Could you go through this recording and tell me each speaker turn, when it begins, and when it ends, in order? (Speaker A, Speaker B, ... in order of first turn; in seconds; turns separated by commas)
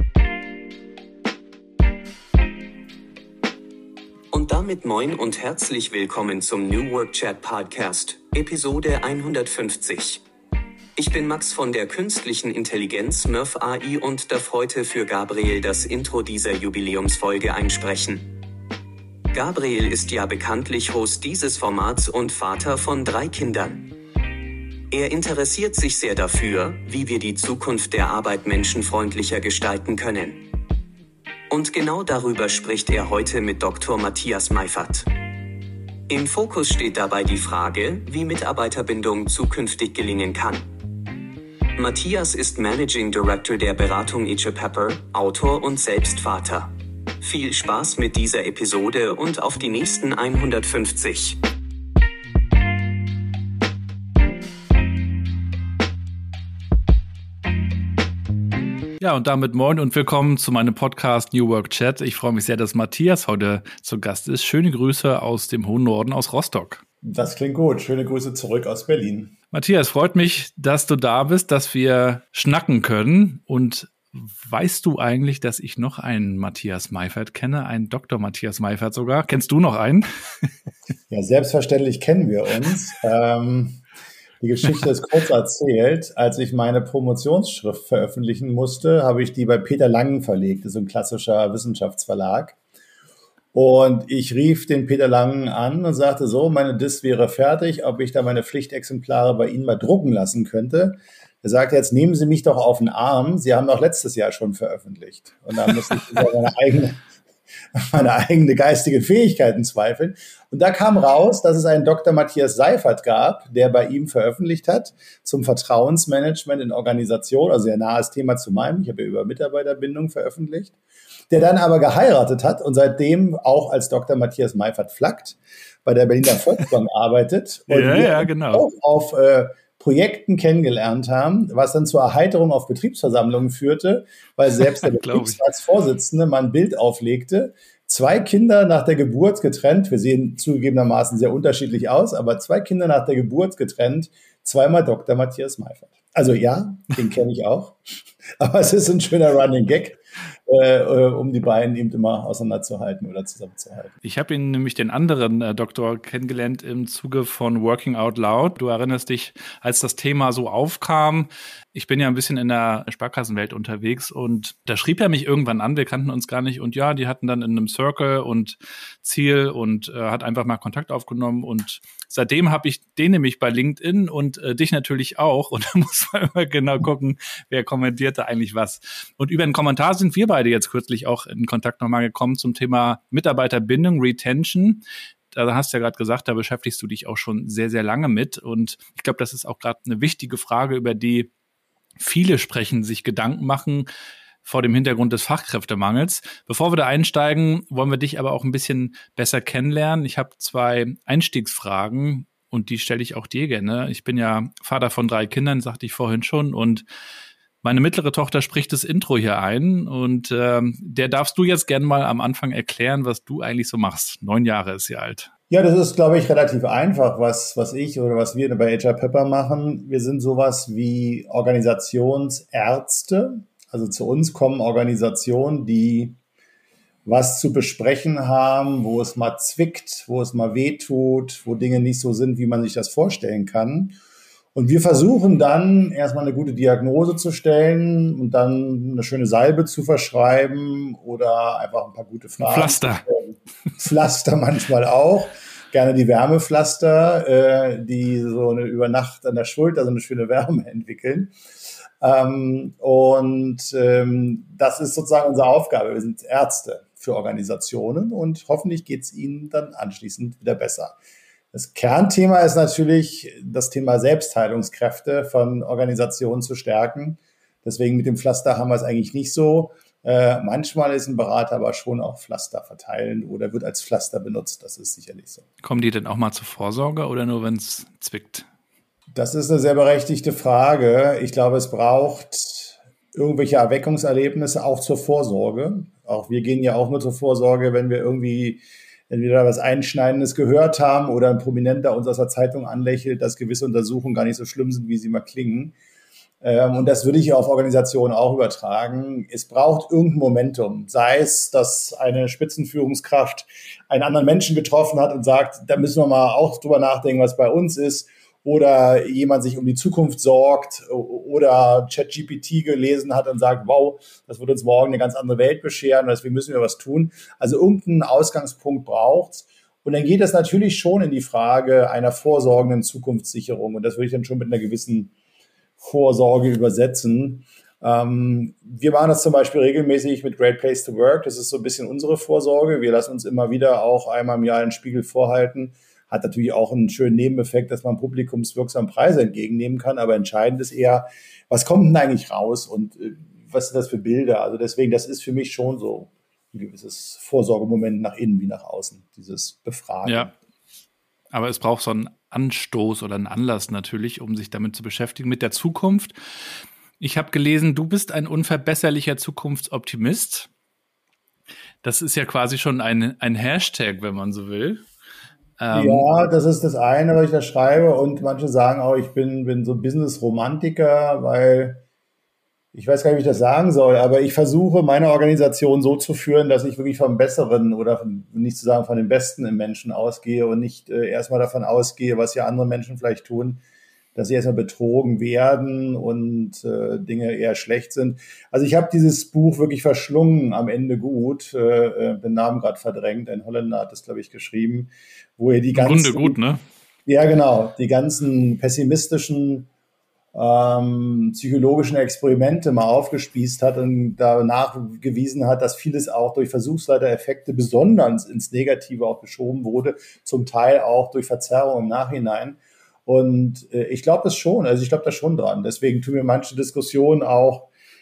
Speaker A: 4.3-10.2, Speaker A: 10.9-18.3, Speaker A: 19.3-23.9, Speaker A: 24.9-30.4, Speaker A: 31.5-35.1, Speaker A: 36.1-40.7, Speaker A: 41.8-51.4, Speaker B: 59.0-66.8, Speaker C: 67.0-69.3, Speaker B: 69.5-80.5, Speaker C: 81.1-83.8, Speaker C: 84.4-92.5, Speaker C: 93.5-107.0, Speaker C: 107.7-120.7, Speaker C: 121.3-147.8, Speaker B: 127.7-128.7, Speaker B: 134.8-135.4, Speaker C: 148.4-153.9, Speaker B: 154.0-191.3, Speaker B: 192.0-193.9, Speaker B: 194.4-206.8, Speaker B: 207.6-215.3, Speaker C: 215.5-226.2, Speaker C: 227.1-234.0, Speaker C: 234.5-251.3, Speaker B: 242.4-243.0, Speaker C: 252.0-261.0, Speaker C: 261.5-275.4, Speaker B: 275.6-278.4, Speaker C: 279.1-295.7, Speaker C: 296.4-325.1, Speaker C: 325.8-350.3, Speaker B: 350.0-350.3, Speaker B: 351.3-356.1, Speaker B: 357.0-360.5, Speaker B: 361.8-364.9, Speaker B: 365.6-366.1, Speaker C: 365.7-371.8, Speaker C: 372.7-383.6, Speaker C: 384.1-396.4, Speaker B: 395.7-396.6, Speaker C: 397.1-399.7, Speaker C: 400.3-417.7